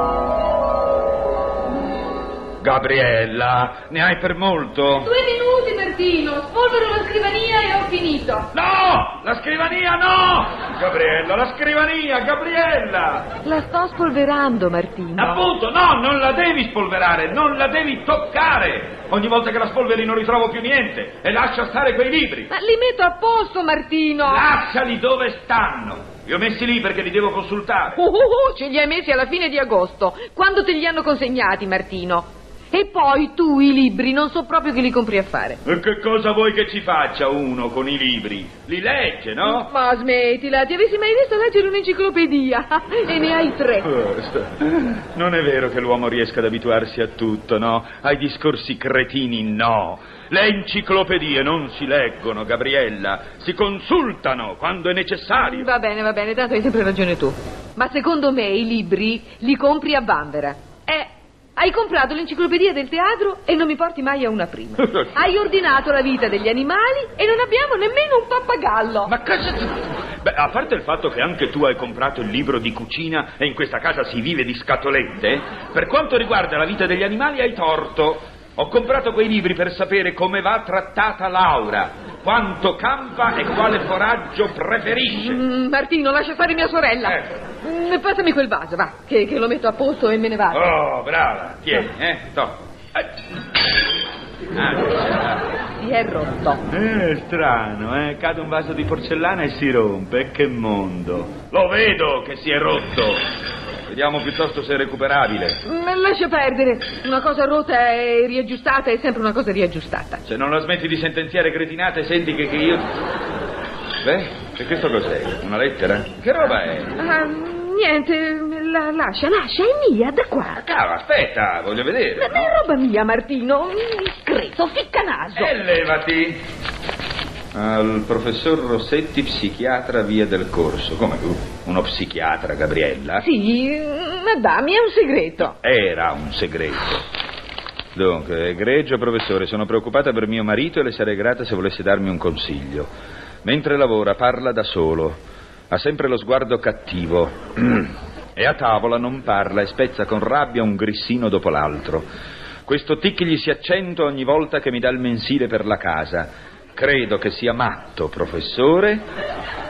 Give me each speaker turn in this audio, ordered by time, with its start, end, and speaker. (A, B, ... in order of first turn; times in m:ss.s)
0:02.6-0:05.1 A
0:04.9-0:08.5 B
0:08.5-0:13.3 A
0:13.4-0:15.4 B
0:15.2-0:22.5 A
0:22.5-0:24.5 B
0:24.2-0:28.0 A
0:27.9-0:35.6 B
0:35.6-0:39.7 A
0:39.4-0:43.9 B
0:43.8-0:55.7 A
0:55.4-1:09.1 B
1:04.8-1:05.2 A
1:09.1-1:25.4 A
1:25.1-1:30.7 B
1:27.0-1:27.4 A
1:30.5-1:33.1 A
1:34.6-1:35.5 A
1:35.7-1:36.7 B
1:36.7-1:43.2 A
1:43.9-1:45.6 A
1:45.6-1:50.2 B
1:50.2-1:52.9 A
1:54.0-1:57.0 A
1:57.0-2:00.6 B
2:00.5-2:02.6 A
2:02.2-2:05.6 B
2:05.4-2:06.4 A
2:07.5-2:13.3 A
2:13.2-2:15.6 B
2:15.4-2:17.1 A
2:18.0-2:22.9 A
2:23.4-2:32.1 A
2:32.6-2:39.1 A